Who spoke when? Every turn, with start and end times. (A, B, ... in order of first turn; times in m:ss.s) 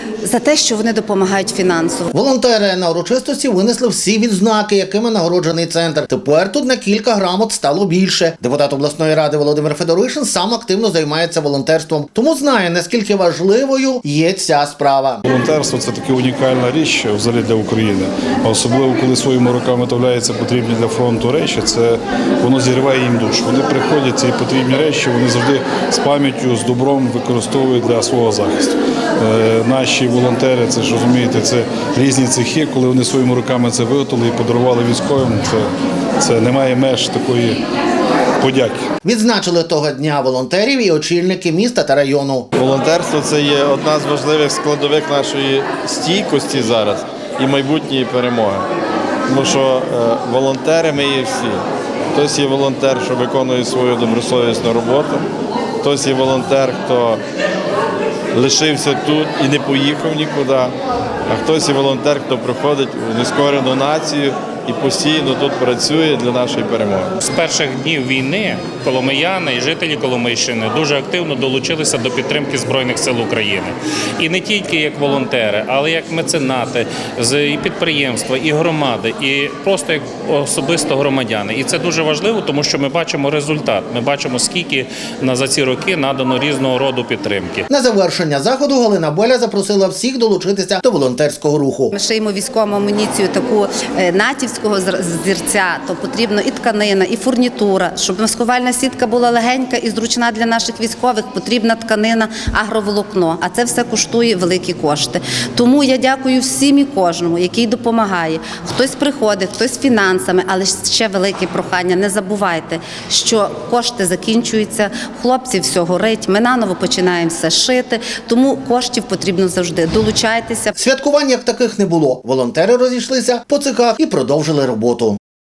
0:00.2-0:02.1 A
0:02.1-0:15.2 B
0:15.2-0:37.6 C
0:38.4-0:38.8 C
0:39.0-0:42.5 B
0:42.6-0:48.7 D
0:49.3-0:51.6 D
0:52.1-0:55.2 D
0:55.8-0:57.2 D
0:58.3-1:00.7 D
1:01.3-1:07.1 D
1:07.2-1:27.6 E
1:27.7-1:31.9 B
1:31.9-2:00.8 A
2:00.8-2:05.2 B